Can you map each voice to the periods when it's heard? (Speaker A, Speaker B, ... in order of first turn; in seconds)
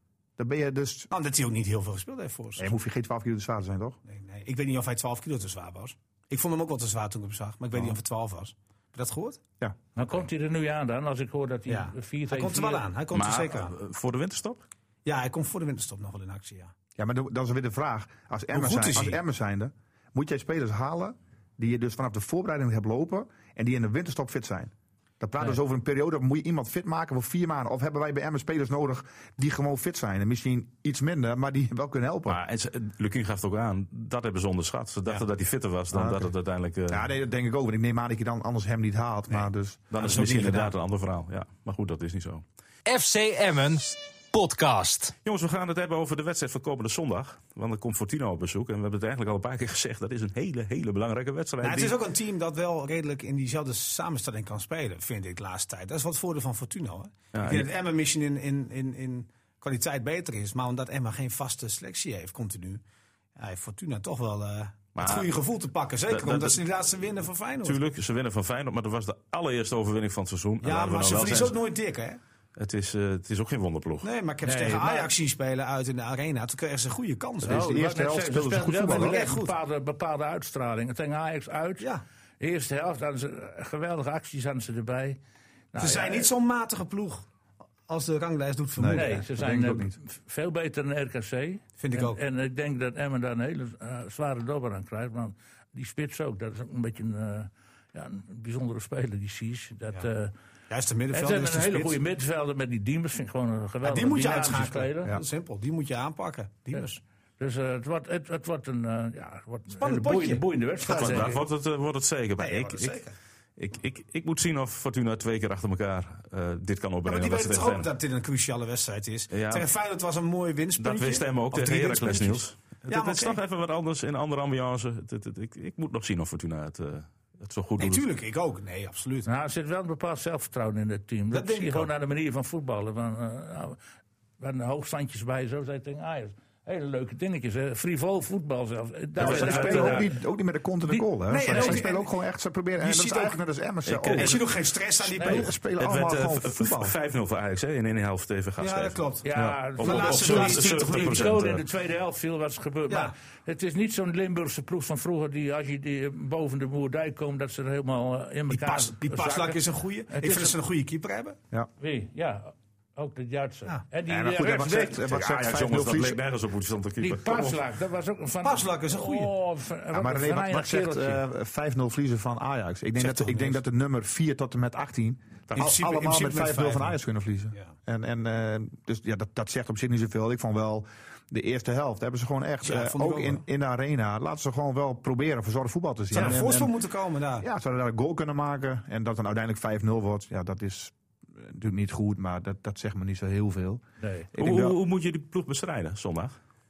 Speaker A: 0.4-1.1, 2.6-4.0, 17.0-32.4, 35.9-36.3, 36.9-40.7, 77.4-79.2, 88.8-90.0, 139.2-144.5, 145.1-146.9, 149.3-149.6, 164.1-166.2, 169.9-186.8, 187.4-193.8, 194.3-194.8
Speaker B: 1.1-2.7, 4.1-9.4, 11.7-13.8, 15.1-16.7, 18.5-19.2, 51.6-62.8, 63.4-67.8, 70.6-72.2, 74.0-77.8, 78.9-79.5, 85.8-87.3, 87.9-89.3, 91.8-92.2, 100.7-102.0, 103.8-107.0, 109.7-111.4, 112.4-113.2, 117.0-123.4, 127.8-129.3, 131.3-131.9, 141.3-142.1, 142.8-143.4, 144.1-145.5, 148.6-151.4, 158.5-161.4, 168.4-169.3, 173.0-173.6, 175.5-177.0, 182.6-183.4, 186.1-187.5
Speaker C: 10.0-12.8, 74.4-75.1, 77.5-81.9, 82.4-85.2, 85.7-86.3, 88.9-100.3, 101.1-105.1, 107.4-111.4, 129.2-133.8, 134.4-140.2, 140.9-141.8, 145.2-145.5, 149.2-160.6, 161.8-165.1, 167.0-171.2, 194.0-194.3
Speaker D: 13.1-14.6, 32.3-37.1, 39.9-42.4, 45.2-52.0, 57.3-57.7, 65.0-65.3, 66.1-66.6, 67.6-71.6, 72.6-74.1, 110.9-113.0, 113.6-117.9, 119.3-119.7, 120.8-128.1, 139.2-140.1, 143.9-144.4, 145.8-149.0, 149.8-151.6, 165.0-167.6, 194.4-196.4
Speaker E: 42.9-45.1